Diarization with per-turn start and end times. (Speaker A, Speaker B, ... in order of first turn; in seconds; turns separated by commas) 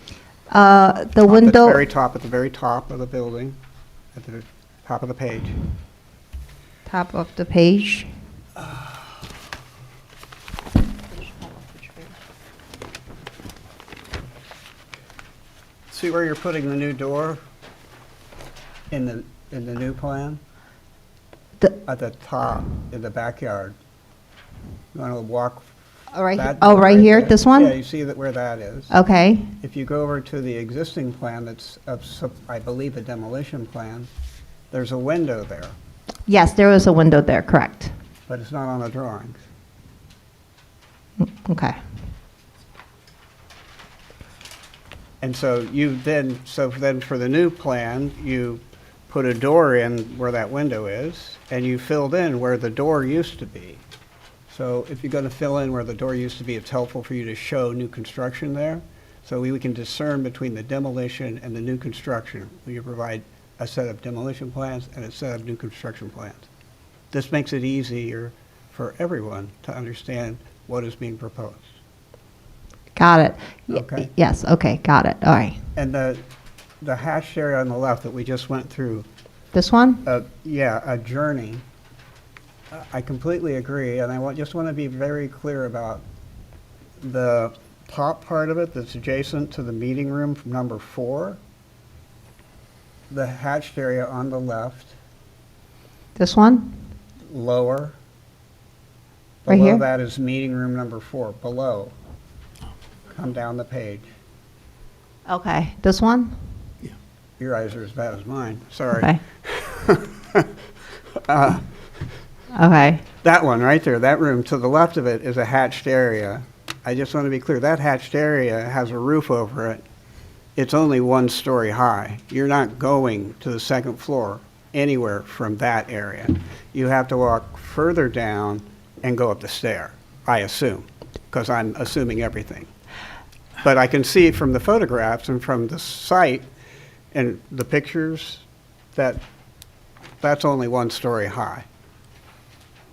Speaker A: 0.5-1.8, Speaker B: 1.2-3.6, Speaker B: 4.1-5.6, Speaker A: 6.9-8.1, Speaker B: 8.6-9.1, Speaker A: 11.0-12.1, Speaker B: 15.9-17.4, Speaker B: 18.9-20.4, Speaker B: 21.8-23.8, Speaker B: 24.9-25.7, Speaker A: 26.1-27.7, Speaker B: 26.3-28.9, Speaker A: 28.9-29.5, Speaker B: 29.6-34.1, Speaker B: 34.7-35.8, Speaker A: 36.3-37.9, Speaker B: 38.3-39.4, Speaker A: 41.2-41.8, Speaker B: 45.2-53.8, Speaker B: 54.5-66.5, Speaker B: 67.1-71.7, Speaker A: 72.9-75.6, Speaker B: 73.7-74.1, Speaker B: 75.7-76.2, Speaker B: 76.8-79.1, Speaker A: 79.5-80.0, Speaker B: 80.0-81.6, Speaker B: 82.7-86.0, Speaker B: 87.0-91.4, Speaker B: 93.1-94.9, Speaker A: 96.2-96.7, Speaker B: 97.3-98.0, Speaker B: 99.4-101.9, Speaker A: 99.5-99.8, Speaker B: 103.1-104.1, Speaker A: 105.3-106.4, Speaker B: 107.4-110.5, Speaker A: 109.0-109.2, Speaker B: 111.2-111.6, Speaker A: 112.5-113.0, Speaker B: 113.2-119.8, Speaker B: 120.5-132.7, Speaker B: 133.6-136.4, Speaker B: 137.1-138.4, Speaker B: 138.9-139.2, Speaker B: 140.2-141.6